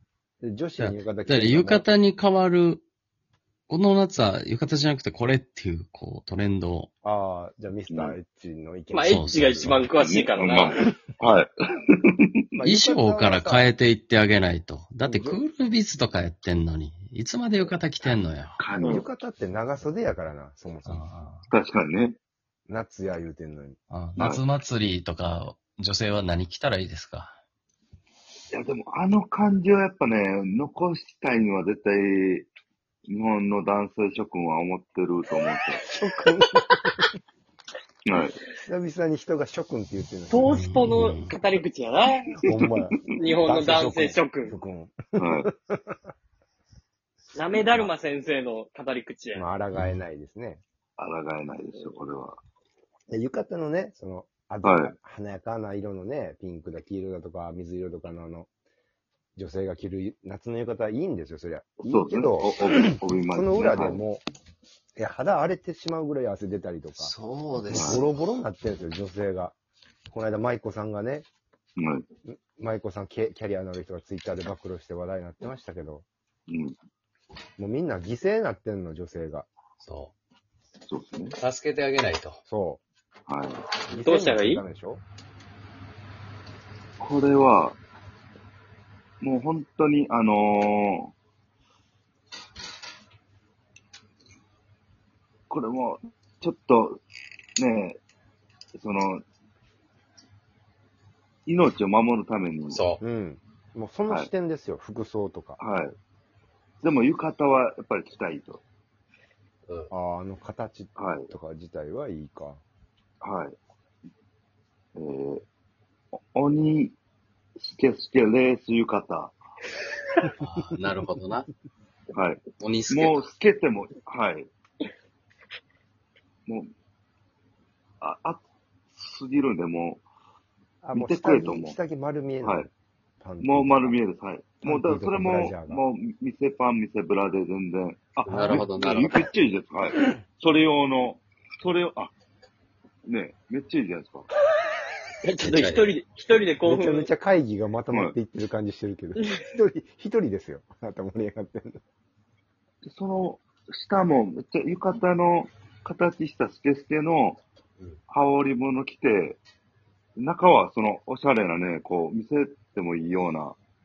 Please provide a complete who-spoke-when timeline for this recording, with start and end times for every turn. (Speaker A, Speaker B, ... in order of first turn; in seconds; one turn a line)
Speaker A: 0.4-1.9
Speaker B: 0.8-2.8
Speaker B: 3.7-6.9
Speaker A: 7.0-9.7
Speaker C: 7.9-8.2
Speaker D: 8.9-10.8
Speaker B: 9.1-9.9
Speaker C: 9.9-12.2
Speaker A: 12.6-13.7
Speaker B: 12.6-18.6
Speaker A: 15.0-15.4
Speaker C: 18.6-19.1
Speaker A: 18.8-21.1
Speaker B: 20.9-21.5
Speaker C: 21.5-22.2
Speaker A: 22.7-23.8
Speaker B: 23.9-27.4
Speaker C: 24.2-24.4
Speaker C: 28.5-32.5
Speaker C: 33.1-35.8
Speaker D: 35.9-36.6
Speaker A: 36.0-37.0
Speaker C: 38.1-38.4
Speaker A: 38.6-40.6
Speaker D: 40.3-42.4
Speaker B: 40.5-41.3
Speaker A: 42.5-46.0
Speaker D: 43.1-44.6
Speaker C: 45.2-45.5
Speaker D: 47.4-49.5
Speaker A: 47.5-47.9
Speaker A: 49.4-50.6
Speaker B: 49.7-50.0
Speaker C: 51.0-52.4
Speaker A: 53.1-58.5
Speaker C: 54.6-55.0
Speaker A: 59.4-64.2
Speaker C: 61.8-64.0
Speaker A: 65.0-67.1
Speaker B: 67.0-68.1
Speaker C: 67.7-68.0
Speaker A: 67.7-69.6
Speaker A: 70.1-71.3
Speaker C: 71.8-72.0
Speaker A: 72.2-76.0
Speaker C: 76.5-76.8
Speaker A: 77.6-79.5
Speaker B: 79.8-80.1
Speaker C: 80.9-81.4
Speaker B: 81.4-82.4
Speaker A: 82.5-82.8
Speaker C: 83.3-83.7
Speaker A: 83.9-85.0
Speaker D: 84.0-84.6
Speaker C: 87.0-87.8
Speaker C: 89.2-91.1
Speaker C: 95.5-97.0
Speaker C: 97.6-98.0
Speaker C: 98.8-99.2
Speaker C: 101.5-102.8
Speaker B: 102.7-103.0
Speaker A: 103.0-105.6
Speaker C: 105.6-106.0
Speaker C: 106.8-108.6
Speaker A: 109.9-112.6
Speaker C: 111.0-111.3
Speaker C: 113.2-113.6
Speaker C: 115.0-115.5
Speaker C: 116.2-117.0
Speaker C: 117.6-119.4
Speaker B: 120.4-121.5
Speaker C: 122.1-124.5
Speaker B: 122.6-123.2
Speaker C: 128.0-130.0
Speaker A: 130.8-132.7
Speaker C: 130.9-131.8
Speaker C: 132.4-132.7
Speaker A: 133.2-134.0
Speaker C: 133.4-142.1
Speaker A: 134.6-135.8
Speaker B: 138.3-139.3
Speaker A: 138.3-138.7
Speaker C: 143.1-144.3
Speaker D: 145.2-147.1
Speaker B: 145.4-145.9
Speaker A: 146.6-151.8
Speaker C: 152.8-157.4
Speaker C: 158.1-159.4
Speaker C: 160.2-163.6